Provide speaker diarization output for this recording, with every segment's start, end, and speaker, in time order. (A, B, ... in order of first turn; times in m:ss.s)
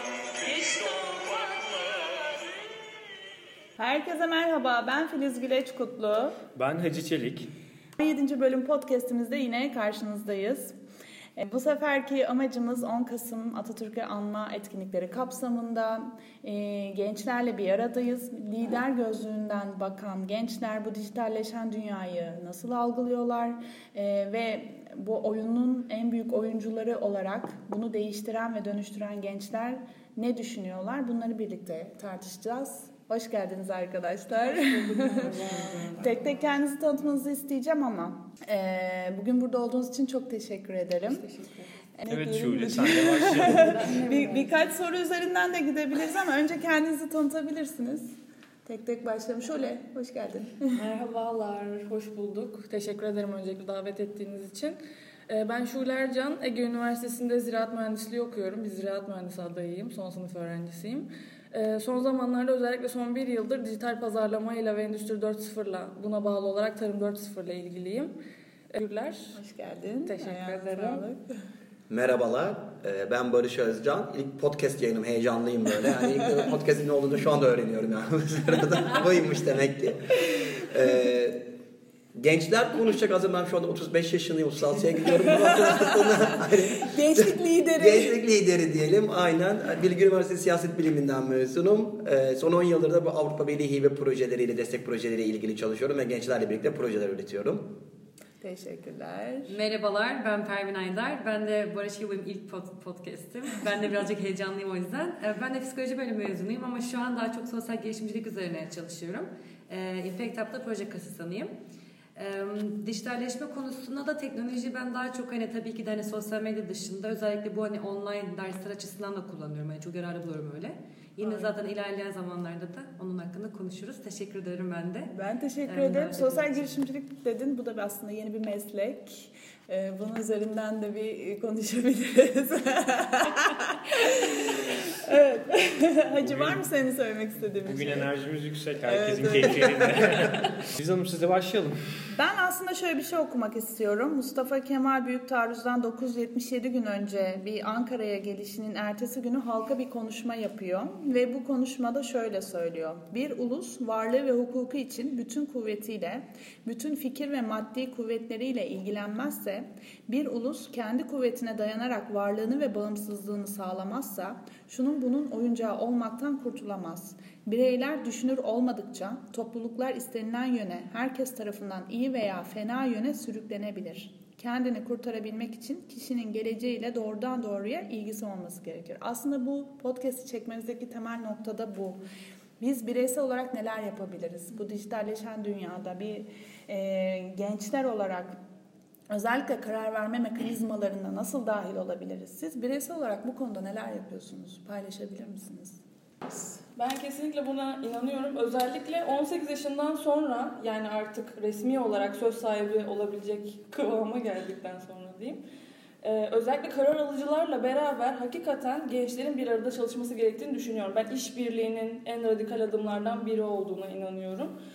0:00.4-0:01.4 A
0:03.8-0:06.4 A
0:06.5-0:07.5 B
0:08.0-0:10.8 A
0:11.4-0:41.2 A
0:34.4-0:36.3 C
0:41.1-0:41.7 C
0:42.0-0:50.8 A
0:42.1-0:43.9 B
0:43.3-0:44.6 C
0:50.7-1:08.1 C
1:08.7-1:09.4 C
1:09.3-1:11.3 A
1:10.0-1:11.1 C
1:11.9-1:21.4 D
1:22.2-1:37.7 D
1:25.2-1:28.2 A
1:38.4-1:39.6 A
1:39.4-1:51.5 E
1:52.2-2:05.1 E
2:05.1-2:18.1 A
2:05.6-2:06.7 E
2:16.2-2:16.6 B
2:17.6-2:21.8 B
2:18.8-2:20.3 A
2:22.1-3:02.0 A
3:02.6-3:08.4 A
3:09.1-3:15.8 A
3:16.8-3:25.4 C
3:26.0-3:34.5 C